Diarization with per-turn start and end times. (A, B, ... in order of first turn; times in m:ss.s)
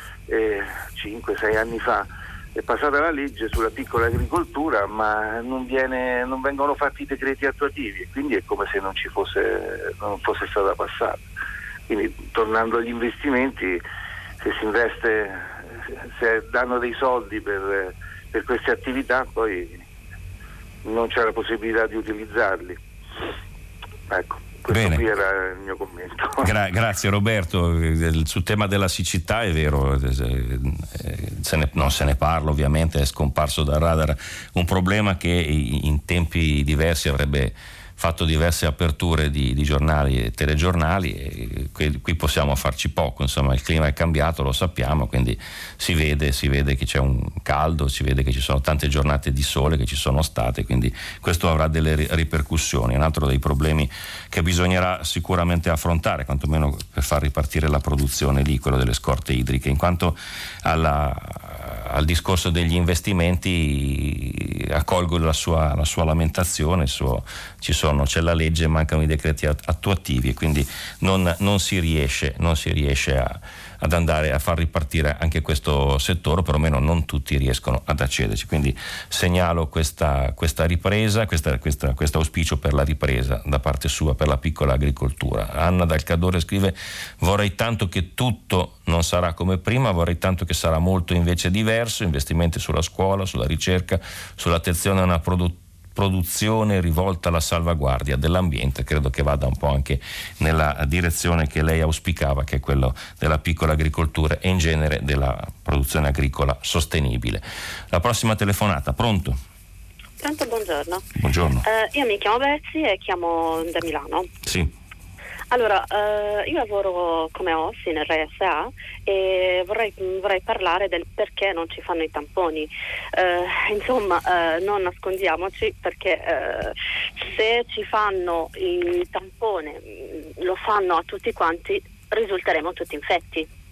0:00.3-0:11.2 A
0:11.9-0:13.8 A
0:14.4-0:19.8 A
0:20.8-0:22.8 A
0:24.1-0:26.5 A
0:24.7-0:25.1 B
0:26.4-1:49.4 B
1:50.2-1:51.0 C
1:51.2-1:51.6 B
1:51.6-1:54.3 C
1:54.4-1:54.7 B
1:55.5-2:13.5 C